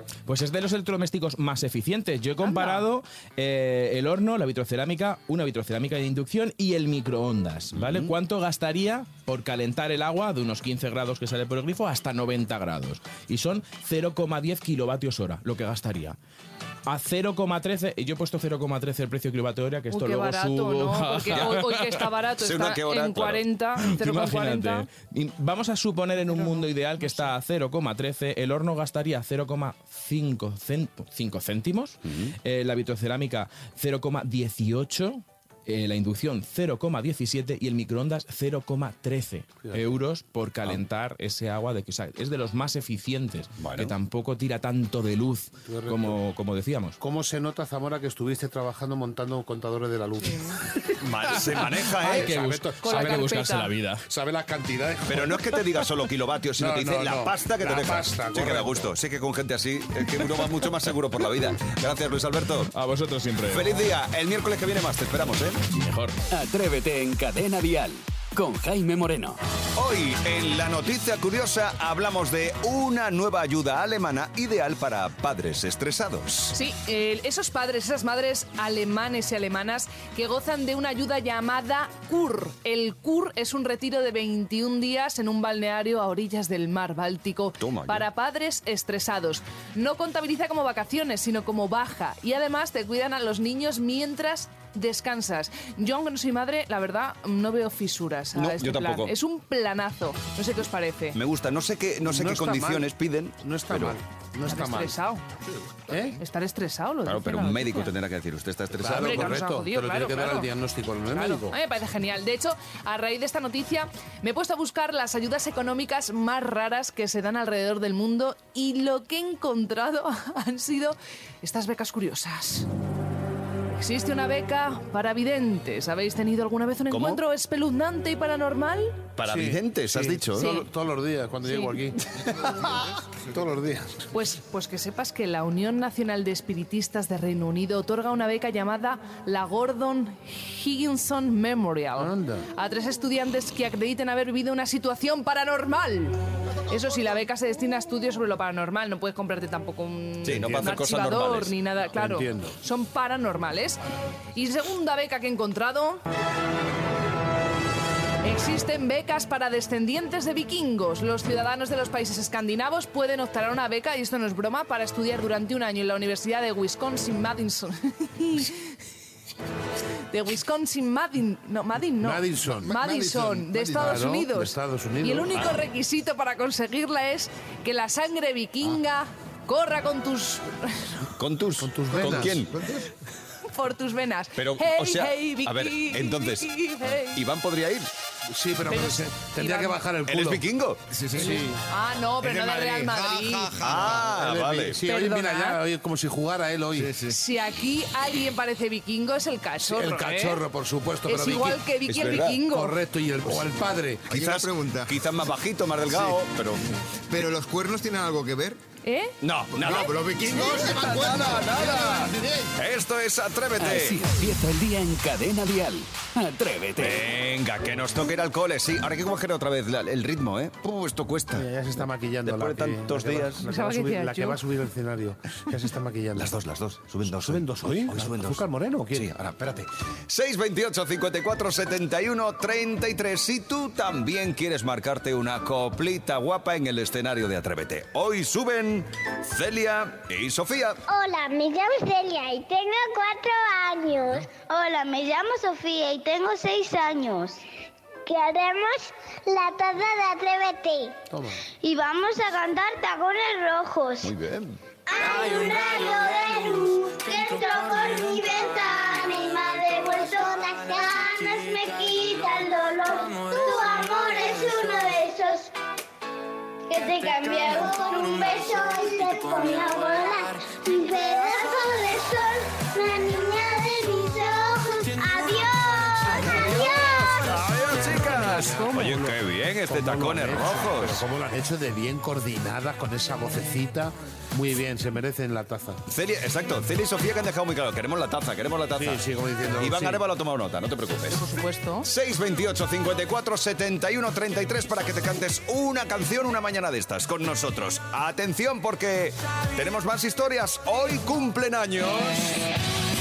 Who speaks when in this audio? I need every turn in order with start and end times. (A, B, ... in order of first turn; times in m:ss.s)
0:00.3-0:16.2 A
0:02.4-0:02.8 B
0:07.7-0:08.1 C
0:16.9-0:22.0 A
0:19.9-0:24.9 B
0:22.4-0:23.4 C
0:23.8-0:47.0 A
0:26.2-0:27.3 B
0:32.0-0:32.3 C
0:39.6-0:39.9 D
0:43.6-0:43.9 C
0:45.6-0:46.2 D
0:47.0-0:50.6 D
0:50.2-0:50.6 B
0:51.0-0:52.6 C
0:51.2-0:54.0 A
0:52.0-0:53.5 D
0:52.8-0:53.7 B
0:54.1-0:55.5 D
0:55.1-1:02.7 C
0:56.6-0:58.9 D
1:02.7-1:03.8 A
1:03.5-1:05.6 C
1:05.7-1:06.2 A
1:06.3-1:09.4 E
1:09.8-1:16.5 C
1:16.5-1:41.2 B
1:27.6-1:28.1 C
1:38.3-1:39.1 C
1:41.1-1:44.0 C
1:42.0-1:45.0 D
1:44.5-1:45.2 B
1:45.9-1:46.2 D
1:46.2-1:47.9 B
1:47.0-1:49.4 C
1:48.8-1:51.6 D
1:48.9-1:50.5 B
1:51.1-2:02.7 B
2:03.7-2:09.0 B
2:06.9-2:07.2 C
2:09.2-2:10.5 C
2:09.2-2:12.0 D
2:10.3-2:10.7 B
2:11.5-2:11.8 B
2:13.3-2:14.1 D
2:14.1-2:26.2 B
2:22.0-2:22.4 D
2:26.7-2:33.8 B
2:30.2-2:31.5 C
2:30.3-2:30.8 D
2:31.9-2:32.5 D
2:34.4-2:36.0 B
2:38.2-2:48.7 B
2:50.1-3:01.1 B
2:52.0-2:55.4 D
2:52.8-2:53.2 F
3:01.2-3:02.5 C
3:01.6-3:02.4 D
3:01.9-3:02.9 F
3:03.5-3:07.2 B
3:04.4-3:06.5 C
3:07.0-3:07.9 C
3:08.3-3:10.4 D
3:08.7-3:09.8 B
3:10.0-3:10.8 C
3:10.9-3:11.4 F
3:11.2-3:11.6 D
3:11.2-3:13.7 B
3:12.2-3:14.1 F
3:13.6-3:14.8 C
3:14.1-3:16.9 D
3:14.9-3:15.6 B
3:16.7-3:17.2 F
3:17.1-3:20.4 B
3:19.6-3:21.6 D
3:21.0-3:22.7 B
3:21.9-3:22.4 C
3:22.1-3:24.0 D
3:24.1-3:25.0 F
3:24.1-3:26.7 C
3:27.1-3:28.6 F
3:28.8-3:29.1 B
3:29.2-3:34.0 C
3:29.6-3:32.3 F
3:31.8-3:32.2 D
3:33.6-3:37.1 E
3:36.8-3:43.4 C
3:41.4-3:46.3 D
3:43.4-3:44.4 B
3:46.2-4:00.8 C
3:47.0-3:49.1 D
4:00.9-4:07.4 G
4:08.0-4:10.9 G
4:11.1-4:11.4 D
4:11.6-4:14.1 G
4:14.0-4:14.6 C
4:14.9-4:25.5 G
4:26.7-4:37.4 G
4:36.2-4:41.0 C
4:38.0-4:45.8 D
4:38.1-4:38.9 B
4:45.9-4:49.0 C
4:48.8-4:50.0 D
4:49.6-4:51.3 C
4:51.1-4:51.9 B
4:51.8-5:02.4 C